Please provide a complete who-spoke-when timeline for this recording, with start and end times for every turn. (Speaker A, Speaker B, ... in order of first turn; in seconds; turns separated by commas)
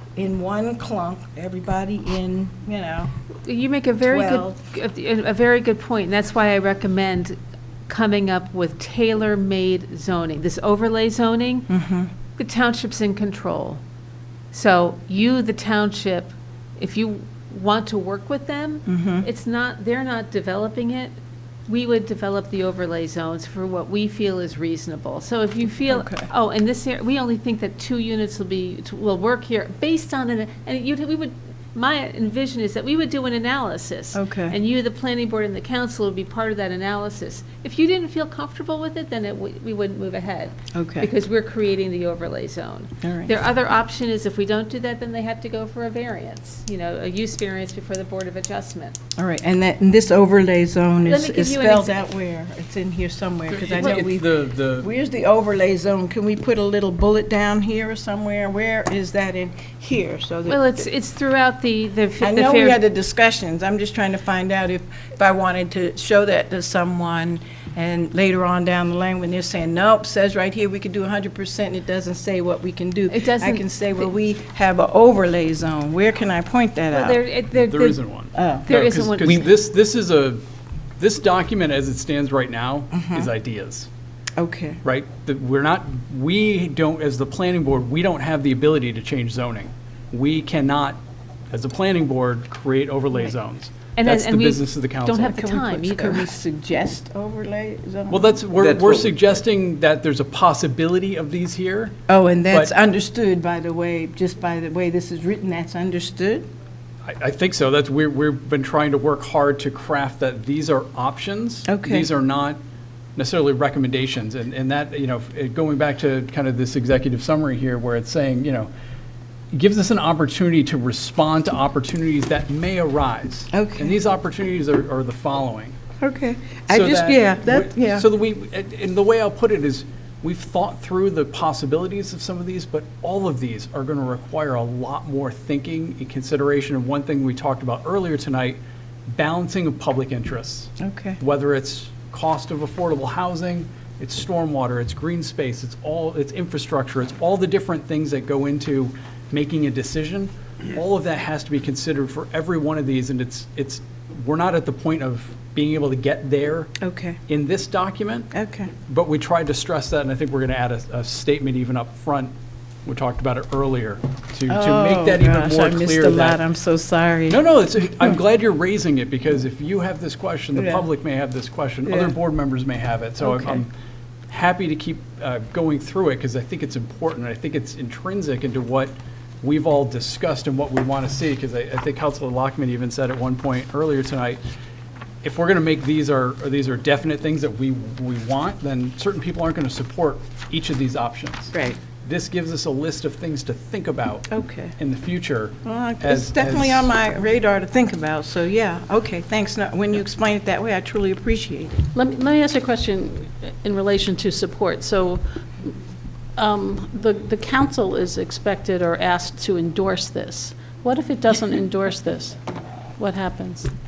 Speaker A: 0.2-3.1, Speaker B: 3.5-7.4, Speaker A: 4.0-4.6, Speaker B: 7.9-11.7, Speaker A: 11.7-12.1, Speaker B: 12.4-13.8, Speaker B: 14.5-21.1, Speaker A: 18.9-19.3, Speaker B: 21.7-49.0, Speaker A: 25.9-26.3, Speaker A: 34.1-34.6, Speaker A: 40.7-41.1, Speaker A: 43.0-43.3, Speaker A: 49.2-60.6, Speaker B: 51.1-52.0, Speaker C: 53.5-54.9, Speaker B: 60.5-62.8, Speaker A: 62.2-77.2, Speaker B: 73.1-74.1, Speaker B: 76.9-78.0, Speaker C: 77.5-80.4, Speaker A: 78.3-78.6, Speaker B: 78.6-79.5, Speaker C: 81.0-83.9, Speaker A: 82.9-83.3, Speaker A: 84.4-84.8, Speaker C: 84.8-91.0, Speaker C: 91.5-95.7, Speaker B: 94.0-96.3, Speaker A: 95.7-98.4, Speaker C: 98.1-102.0, Speaker A: 102.1-106.5, Speaker C: 107.0-112.6, Speaker A: 111.7-112.1, Speaker C: 113.2-118.7, Speaker C: 119.5-125.8, Speaker A: 123.5-124.0, Speaker A: 126.0-128.1, Speaker C: 126.7-138.6, Speaker C: 139.1-156.7, Speaker A: 140.8-141.2, Speaker A: 156.8-157.2, Speaker C: 157.3-158.3, Speaker A: 158.3-158.7, Speaker C: 158.9-162.3, Speaker C: 162.8-166.4, Speaker A: 164.5-167.4, Speaker C: 167.3-173.7, Speaker A: 170.6-170.8, Speaker A: 171.9-172.1, Speaker A: 173.2-173.6, Speaker C: 174.3-184.4, Speaker C: 185.2-196.9, Speaker A: 191.5-191.8, Speaker A: 194.3-194.8, Speaker A: 195.7-201.8, Speaker D: 201.9-205.7, Speaker D: 206.4-212.4, Speaker D: 213.0-213.7